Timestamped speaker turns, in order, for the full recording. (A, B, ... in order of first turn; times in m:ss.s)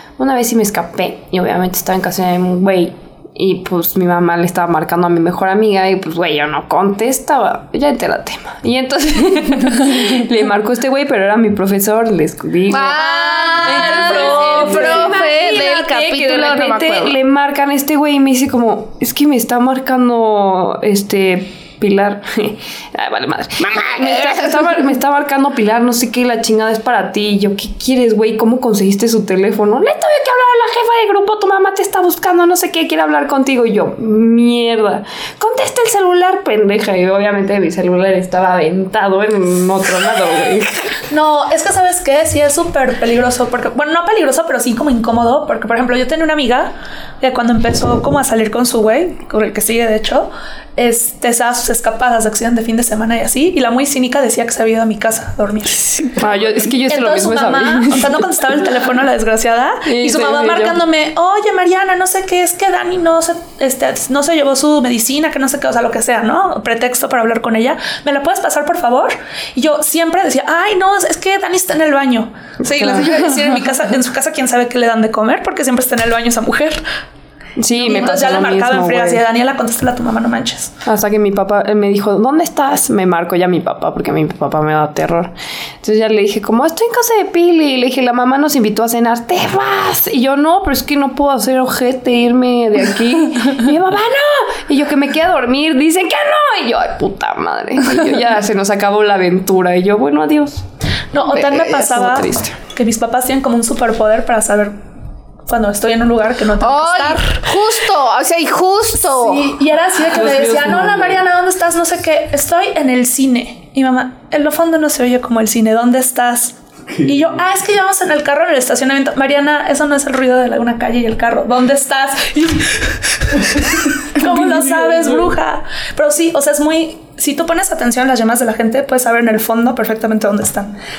0:00.2-0:40.9 A
0:12.7-0:17.2 B
0:13.1-0:15.2 C
0:23.6-0:24.8 B
0:41.1-0:56.2 C
0:56.2-0:58.2 A
0:56.9-1:16.8 C
0:59.9-1:00.8 A
1:12.6-1:13.2 A
1:17.6-1:19.2 A
1:17.7-1:20.7 C
1:20.8-1:40.6 A
1:41.1-1:44.7 C
1:41.2-1:41.9 B
1:41.8-1:42.5 A
1:45.5-1:47.4 C
1:46.6-1:49.5 B
1:49.1-2:10.8 C
1:50.1-1:51.2 A